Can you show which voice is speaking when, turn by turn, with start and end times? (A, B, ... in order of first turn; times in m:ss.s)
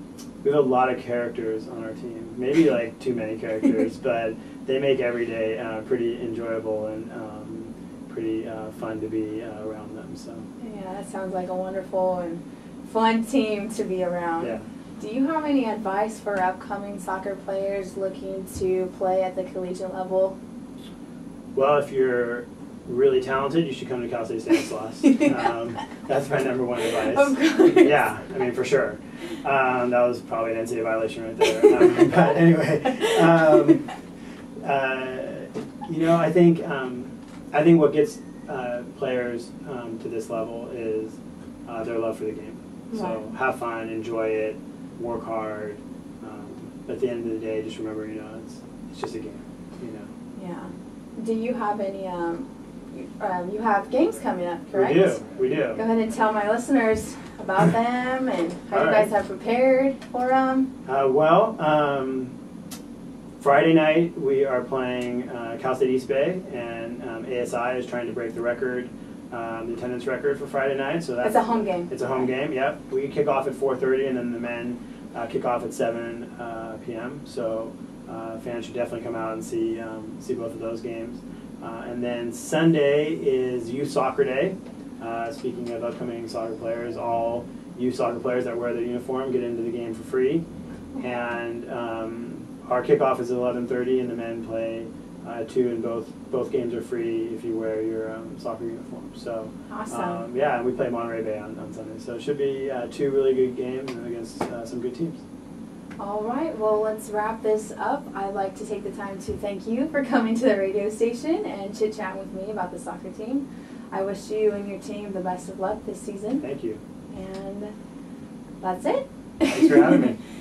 0:00.4-0:10.4 A
0:10.6-0:20.4 B
0:14.4-0:14.6 A
0:21.5-0:33.9 A
0:27.0-0:28.0 B
0:34.6-0:50.1 A
0:42.9-0:43.2 B
0:50.3-0:55.2 B
0:54.7-0:55.8 A
0:55.7-1:00.7 B
0:58.7-0:59.1 A
1:00.8-1:02.3 A
1:03.4-1:30.4 A
1:11.2-1:12.0 B
1:31.0-1:45.2 A
1:39.7-1:40.2 B
1:46.0-1:56.4 B
1:56.4-1:56.8 A
1:57.1-1:57.7 B
1:58.6-2:00.0 B
1:59.5-2:00.2 A